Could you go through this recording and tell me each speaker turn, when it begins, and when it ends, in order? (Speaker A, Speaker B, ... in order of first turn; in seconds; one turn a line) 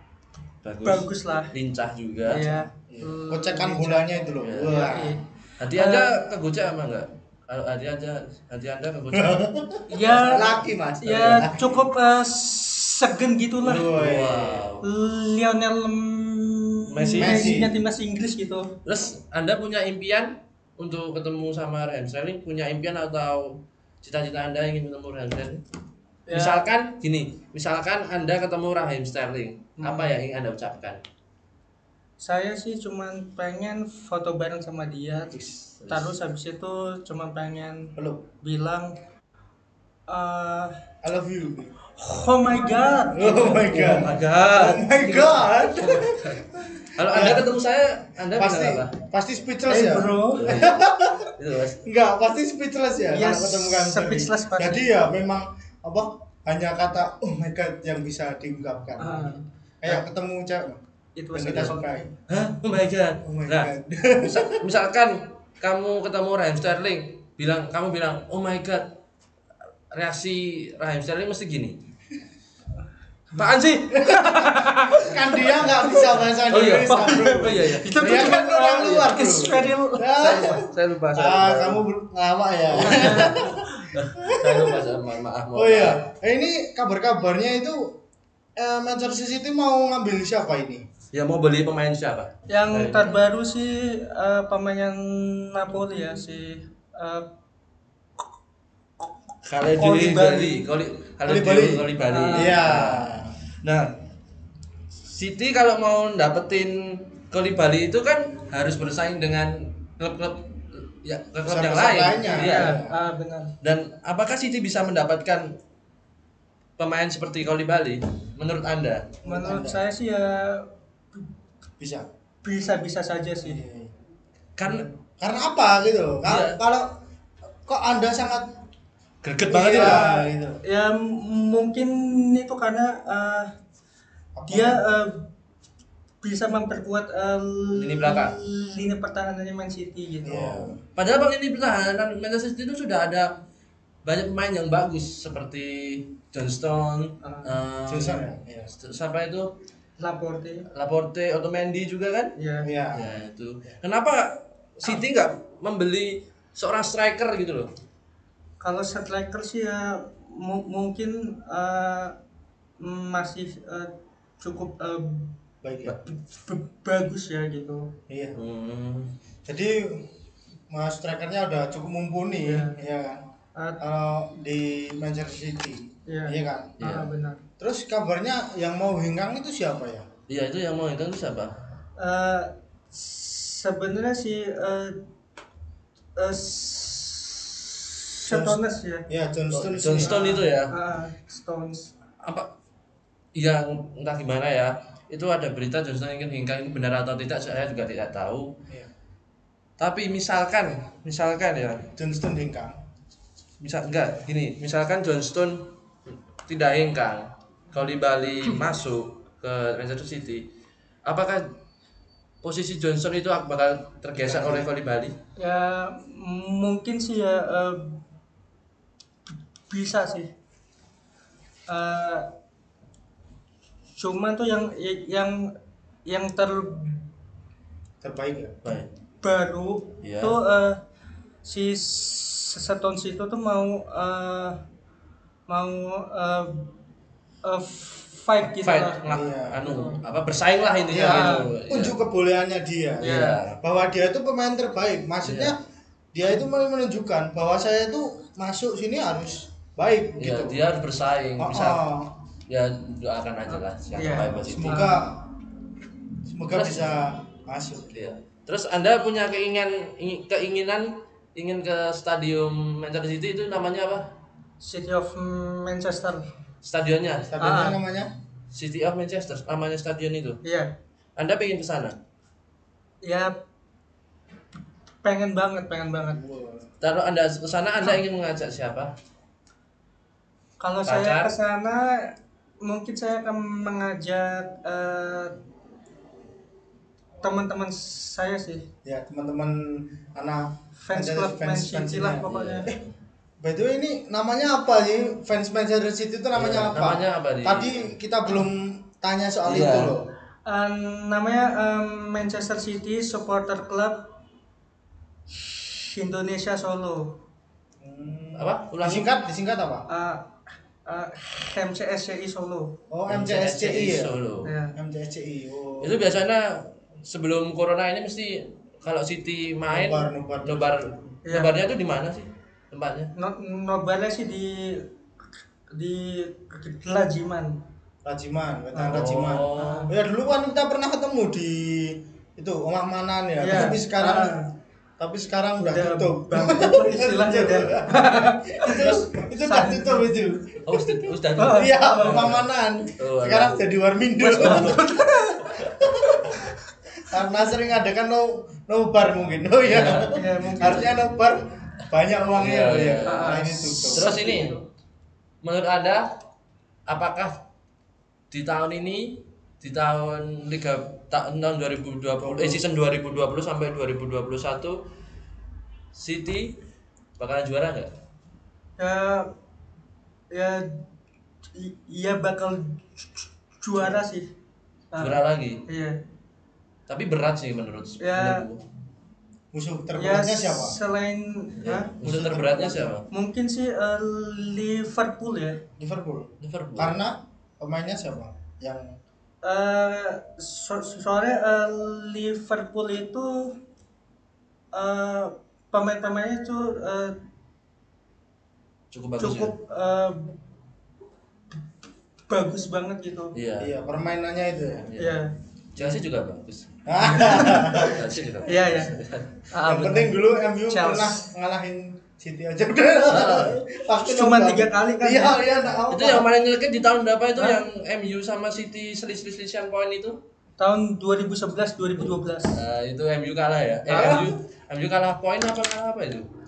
Speaker A: 0.6-2.6
Speaker B: 0.8-1.5
Speaker B: 2.3-6.2
Speaker C: 2.9-5.2
Speaker A: 4.4-4.8
Speaker A: 5.6-9.5
Speaker C: 9.1-11.9
Speaker B: 9.9-13.9
Speaker A: 10.1-10.5
Speaker C: 13.6-14.7
Speaker A: 13.7-14.8
Speaker B: 14.8-18.7
Speaker A: 16.9-17.6
Speaker C: 17.2-17.8
Speaker A: 18.9-25.6
Speaker B: 26.3-26.7
Speaker A: 26.3-31.0
Speaker B: 29.8-30.1
Speaker B: 32.2-38.9
Speaker A: 35.3-36.1
Speaker C: 38.0-38.3
Speaker B: 40.1-40.7
Speaker C: 41.0-41.7
Speaker B: 42.0-44.1
Speaker C: 43.1-47.5
Speaker A: 43.7-46.4
Speaker A: 47.0-48.9
Speaker C: 48.3-51.3
Speaker B: 49.7-50.5
Speaker A: 50.4-51.8
Speaker C: 51.8-60.8
Speaker B: 53.1-54.9
Speaker B: 59.0-60.0
Speaker B: 61.2-61.9
Speaker C: 61.3-62.1
Speaker A: 62.3-68.9
Speaker C: 63.2-64.6
Speaker A: 69.9-71.8
Speaker A: 73.4-74.6
Speaker B: 73.9-76.1
Speaker C: 74.9-84.8
Speaker A: 76.5-79.7
Speaker B: 76.8-80.6
Speaker A: 80.2-81.9
Speaker A: 82.7-86.0
Speaker B: 82.7-83.9
Speaker C: 85.5-87.9
Speaker C: 88.6-90.8
Speaker A: 91.1-93.2
Speaker B: 92.5-97.3
Speaker A: 99.5-103.9
Speaker B: 99.7-100.7
Speaker C: 101.2-103.3
Speaker B: 102.0-102.6
Speaker A: 105.0-112.8
Speaker C: 111.5-113.0
Speaker B: 112.3-113.5
Speaker A: 113.6-115.5
Speaker A: 116.8-119.1
Speaker C: 119.2-119.8
Speaker B: 119.2-121.2
Speaker C: 121.8-122.1
Speaker B: 122.4-123.6
Speaker C: 123.4-123.9
Speaker A: 124.6-124.9
Speaker C: 124.7-126.9
Speaker A: 126.2-126.6
Speaker C: 127.7-128.5
Speaker A: 129.2-130.1
Speaker C: 129.5-130.6
Speaker B: 129.7-133.5
Speaker C: 134.3-134.8
Speaker B: 134.5-135.2
Speaker B: 136.2-140.5
Speaker A: 137.7-138.4
Speaker C: 140.2-140.8
Speaker A: 140.3-143.3
Speaker A: 144.1-149.5
Speaker B: 147.2-147.5
Speaker C: 147.9-148.7
Speaker B: 150.0-150.7
Speaker A: 150.7-152.3
Speaker B: 152.4-152.7
Speaker C: 152.6-153.2
Speaker A: 152.9-157.7
Speaker B: 158.6-162.1
Speaker B: 162.8-165.3
Speaker C: 165.6-166.0
Speaker B: 166.1-167.9
Speaker C: 168.1-168.4
Speaker A: 168.4-169.1
Speaker C: 169.5-170.1
Speaker C: 170.7-173.2
Speaker B: 172.5-172.8
Speaker B: 173.6-173.8
Speaker C: 173.8-176.8
Speaker B: 176.1-177.4
Speaker A: 176.8-177.1
Speaker C: 177.6-180.1
Speaker A: 180.3-181.6
Speaker B: 182.0-185.0
Speaker B: 186.2-189.1
Speaker C: 188.2-190.1
Speaker A: 189.5-190.7
Speaker B: 190.0-191.9
Speaker A: 192.2-192.5
Speaker A: 193.3-198.6
Speaker A: 199.8-201.9
Speaker C: 202.0-202.8
Speaker A: 203.6-205.6
Speaker A: 206.5-210.4
Speaker A: 211.1-211.4
Speaker A: 212.4-215.1
Speaker C: 214.2-214.7
Speaker B: 215.4-218.0
Speaker B: 219.3-220.3
Speaker B: 221.7-222.3
Speaker B: 224.0-225.4
Speaker B: 226.1-227.1
Speaker C: 228.0-228.6
Speaker A: 228.6-228.9
Speaker B: 229.2-230.8
Speaker A: 230.0-230.4
Speaker B: 231.4-234.6
Speaker B: 235.5-236.7
Speaker B: 237.4-240.0
Speaker A: 238.4-242.0
Speaker C: 239.1-239.7
Speaker C: 240.9-245.6
Speaker B: 241.0-241.5
Speaker A: 243.0-243.6
Speaker B: 243.0-243.4
Speaker A: 245.2-245.5
Speaker C: 246.1-250.6
Speaker A: 250.2-251.9
Speaker C: 251.4-252.2
Speaker A: 252.5-254.9
Speaker B: 253.5-255.1
Speaker C: 254.4-255.2
Speaker C: 256.3-258.1
Speaker A: 256.5-256.9
Speaker A: 257.9-264.1
Speaker B: 264.6-266.2
Speaker A: 266.6-267.3
Speaker C: 267.3-268.1
Speaker B: 267.4-267.8
Speaker A: 268.5-270.4
Speaker B: 270.4-270.7
Speaker A: 271.2-271.9
Speaker B: 273.0-273.3
Speaker B: 275.0-276.2
Speaker C: 276.1-276.7
Speaker A: 276.8-278.9
Speaker B: 280.6-282.1
Speaker A: 280.9-281.4
Speaker B: 282.6-285.4
Speaker B: 287.2-288.6
Speaker C: 288.9-292.8
Speaker B: 290.8-292.7
Speaker A: 292.3-292.7
Speaker C: 293.4-300.1
Speaker A: 296.4-297.9
Speaker A: 299.4-300.0
Speaker B: 300.5-304.0
Speaker B: 305.3-307.1
Speaker C: 307.8-309.9
Speaker A: 308.4-309.1
Speaker B: 309.9-310.3
Speaker B: 310.9-312.7
Speaker C: 312.9-314.2
Speaker A: 313.1-314.5
Speaker B: 314.4-314.8
Speaker C: 314.8-316.0
Speaker A: 315.8-323.1
Speaker C: 319.7-320.7
Speaker B: 321.3-321.6
Speaker B: 323.2-324.8
Speaker B: 325.7-327.6
Speaker C: 328.1-334.4
Speaker B: 328.7-329.0
Speaker A: 328.9-329.9
Speaker B: 329.6-329.9
Speaker B: 333.4-334.5
Speaker C: 335.0-340.9
Speaker B: 335.6-340.2
Speaker A: 340.6-342.4
Speaker B: 341.4-342.3
Speaker C: 341.5-345.0
Speaker A: 343.0-343.7
Speaker B: 344.2-346.5
Speaker A: 344.3-346.1
Speaker C: 345.6-346.4
Speaker C: 347.1-354.2
Speaker A: 349.6-350.1
Speaker B: 349.9-351.0
Speaker A: 352.4-354.6
Speaker B: 353.0-354.6
Speaker A: 355.4-356.0
Speaker A: 356.9-357.3
Speaker A: 358.3-364.8
Speaker C: 362.2-362.6
Speaker A: 365.9-366.6
Speaker A: 367.2-367.9
Speaker B: 368.8-369.3
Speaker B: 370.3-370.7
Speaker B: 371.5-372.8
Speaker B: 373.6-374.3
Speaker B: 374.9-376.0
Speaker A: 375.0-375.6
Speaker A: 376.9-378.6
Speaker B: 378.0-378.5
Speaker C: 379.5-380.8
Speaker B: 380.0-381.9
Speaker A: 381.6-383.1
Speaker C: 382.0-383.0
Speaker B: 383.1-385.6
Speaker C: 385.8-388.9
Speaker A: 386.4-387.0
Speaker B: 389.4-393.5
Speaker B: 394.7-397.2
Speaker A: 398.9-399.6
Speaker B: 399.2-400.4
Speaker B: 402.3-403.3
Speaker A: 403.4-403.7
Speaker C: 403.6-404.9
Speaker A: 404.9-405.2
Speaker B: 405.0-405.3
Speaker A: 405.8-406.7
Speaker C: 406.9-408.0
Speaker B: 407.0-408.9
Speaker A: 407.8-409.4
Speaker B: 409.5-411.3
Speaker C: 409.6-416.3
Speaker A: 413.1-413.6
Speaker B: 414.1-415.4
Speaker A: 415.9-420.2
Speaker B: 417.4-417.6
Speaker B: 420.6-422.6
Speaker A: 422.0-426.3
Speaker C: 423.9-424.3
Speaker B: 423.9-424.3